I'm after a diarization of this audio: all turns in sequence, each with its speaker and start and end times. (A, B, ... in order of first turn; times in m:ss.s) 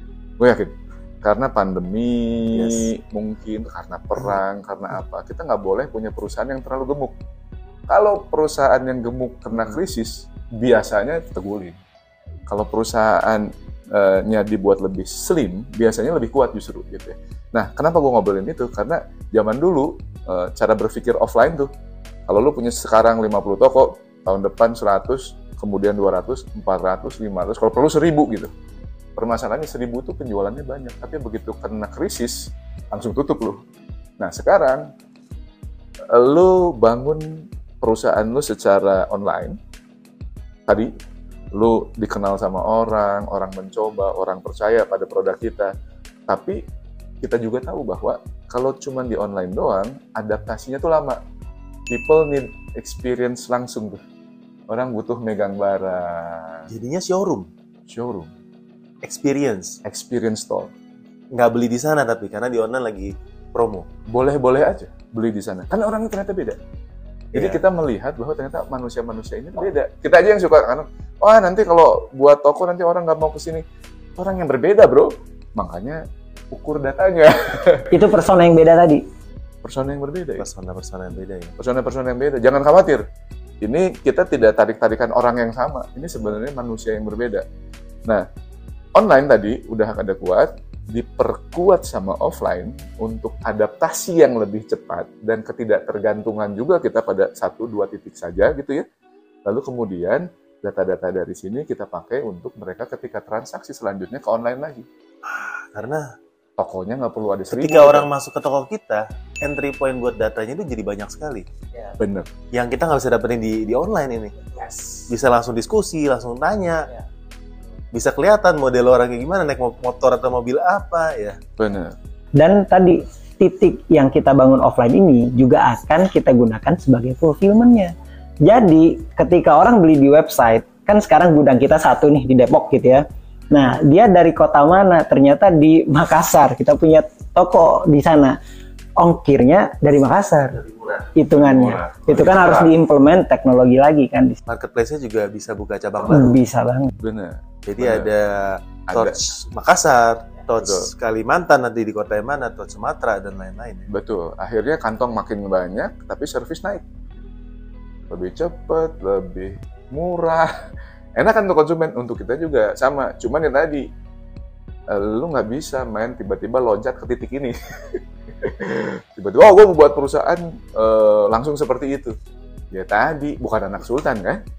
0:00.4-0:07.1 A
0:02.5-0:02.9 B
0:07.9-0:11.8 A
0:12.5-0:21.7 A
0:22.3-0:28.5 A
0:29.2-0:33.6 A
0:34.2-0:34.9 A
0:36.1-0:39.6 A
0:41.5-0:45.7 A
0:46.3-0:46.6 A
0:47.2-0:51.2 A
0:51.9-0:54.0 A
0:54.7-0:56.7 A
0:56.7-0:57.5 B
0:57.9-0:58.3 A
0:59.0-0:59.8 B
0:59.8-1:00.7 A
1:01.3-1:03.9 B
1:04.1-1:06.6 A
1:07.3-1:13.6 A
1:07.3-1:07.6 B
1:14.2-1:16.0 A
1:16.5-1:17.9 A
1:17.9-1:19.0 C
1:19.6-1:20.4 A
1:20.4-1:21.5 B
1:21.6-1:23.0 A
1:23.6-1:27.4 A
1:29.0-1:38.8 A
1:39.4-1:44.8 A
1:45.2-1:46.0 B
1:46.6-1:48.1 A
1:47.5-1:51.5 B
1:52.0-1:52.3 A
1:52.5-1:56.9 B
1:57.9-2:01.4 B
2:01.6-2:02.0 A
2:02.4-2:07.9 C
2:08.4-2:18.4 C
2:19.0-2:20.6 C
2:20.6-2:21.1 B
2:21.2-2:24.4 C
2:21.3-2:22.7 A
2:24.5-2:26.4 B
2:26.1-2:26.9 C
2:27.0-2:28.1 A
2:27.7-2:33.9 B
2:30.6-2:30.9 A
2:33.9-2:36.8 A
2:38.1-2:40.5 A
2:41.2-2:43.8 A
2:44.9-2:52.1 A
2:52.7-2:54.4 A